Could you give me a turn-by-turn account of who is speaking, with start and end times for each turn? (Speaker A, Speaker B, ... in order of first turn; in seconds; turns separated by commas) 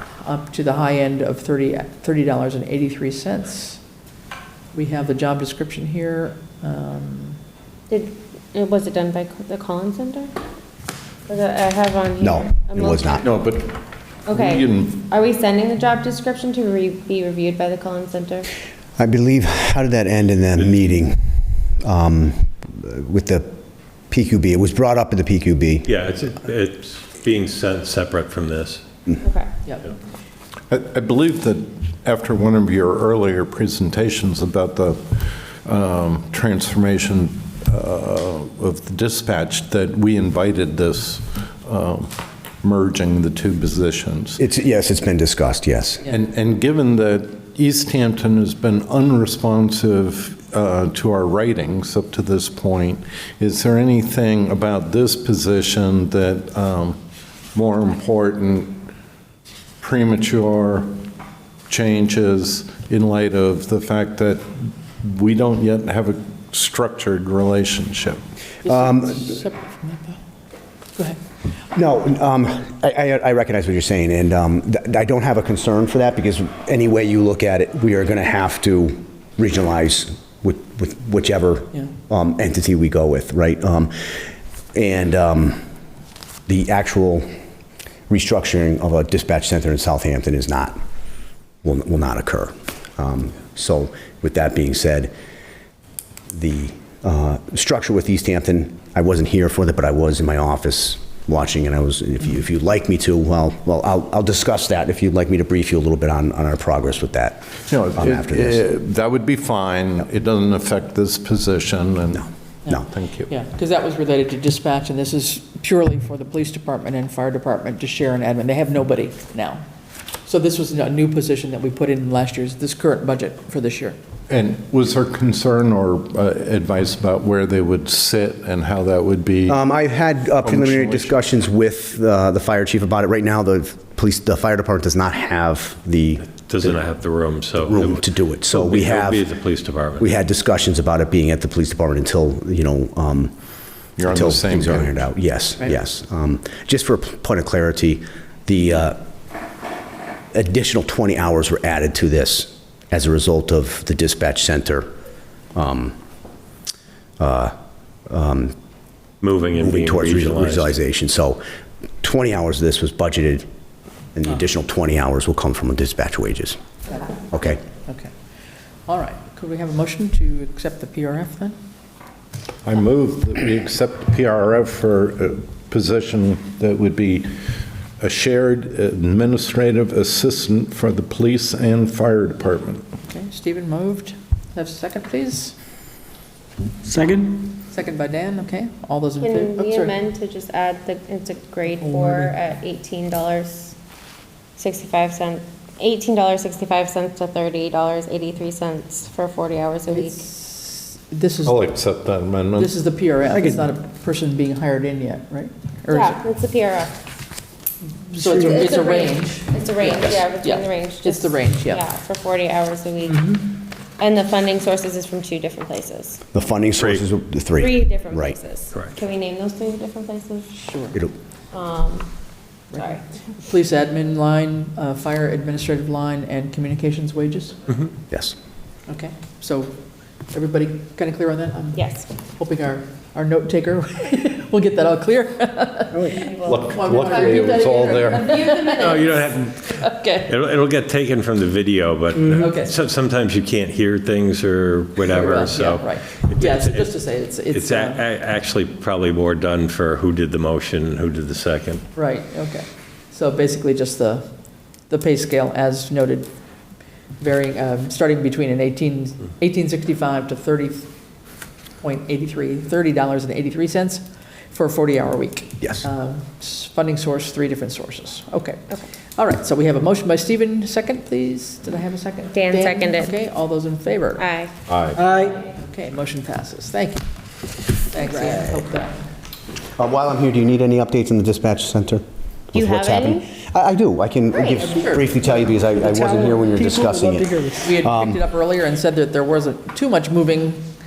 Speaker A: 0.2-3.8, Speaker A: 4.7-7.4, Speaker B: 7.9-10.3, Speaker B: 11.3-13.2, Speaker C: 12.2-13.2, Speaker D: 13.2-15.0, Speaker B: 14.3-18.5, Speaker C: 19.0-23.6, Speaker C: 24.1-25.9, Speaker E: 25.9-28.8, Speaker B: 29.2-29.5, Speaker A: 29.6-29.9, Speaker D: 30.7-44.4, Speaker C: 44.4-46.0, Speaker D: 46.1-57.0, Speaker D: 57.5-58.9, Speaker D: 59.8-61.0, Speaker D: 61.7-68.2, Speaker C: 68.6-69.3, Speaker A: 68.7-70.2, Speaker C: 71.7-84.0, Speaker C: 84.7-85.6, Speaker C: 86.5-87.3, Speaker C: 88.1-90.8, Speaker C: 91.6-95.1, Speaker C: 96.3-108.6, Speaker D: 107.7-113.3, Speaker C: 112.2-112.8, Speaker A: 112.7-119.7, Speaker A: 120.2-124.0, Speaker D: 124.3-129.6, Speaker C: 129.5-136.8, Speaker D: 130.4-131.2, Speaker E: 136.3-140.1, Speaker C: 137.6-139.3, Speaker C: 140.0-143.3, Speaker D: 144.0-145.1, Speaker C: 144.1-149.0, Speaker C: 150.3-154.9, Speaker C: 155.5-156.0, Speaker C: 157.2-157.6, Speaker C: 158.1-158.5, Speaker E: 159.2-160.8, Speaker C: 159.6-161.4, Speaker C: 162.0-163.4, Speaker C: 164.2-166.6, Speaker C: 167.3-167.6, Speaker A: 167.8-168.2, Speaker A: 168.9-171.6, Speaker D: 172.6-182.8, Speaker A: 183.1-185.6, Speaker F: 186.8-187.5, Speaker A: 187.6-189.9, Speaker B: 189.2-193.8, Speaker B: 194.6-200.2, Speaker A: 199.9-201.6, Speaker D: 201.4-202.8, Speaker A: 202.6-206.2, Speaker B: 205.9-206.9, Speaker A: 208.1-211.9, Speaker F: 208.1-208.7, Speaker B: 208.4-213.3, Speaker B: 214.0-216.2, Speaker C: 216.3-218.4, Speaker E: 216.8-217.0, Speaker B: 217.6-220.6, Speaker A: 220.5-221.0, Speaker B: 221.5-222.1, Speaker B: 222.7-223.0, Speaker A: 222.7-227.6, Speaker C: 228.1-228.4, Speaker A: 228.9-239.1, Speaker B: 231.8-232.1, Speaker B: 236.1-236.7, Speaker D: 236.4-238.4, Speaker B: 238.2-239.2, Speaker E: 238.7-251.8, Speaker A: 239.7-240.3, Speaker A: 242.3-242.7, Speaker A: 245.1-248.0, Speaker A: 251.9-256.4, Speaker A: 257.2-260.9, Speaker A: 261.8-274.3, Speaker B: 272.3-273.1, Speaker B: 274.2-274.5, Speaker D: 274.7-275.0, Speaker F: 275.0-275.3, Speaker A: 275.2-277.1, Speaker A: 277.8-279.0, Speaker B: 278.0-278.4, Speaker C: 279.8-288.2, Speaker B: 282.5-283.2, Speaker A: 284.5-285.2, Speaker F: 285.8-287.6, Speaker A: 287.6-290.7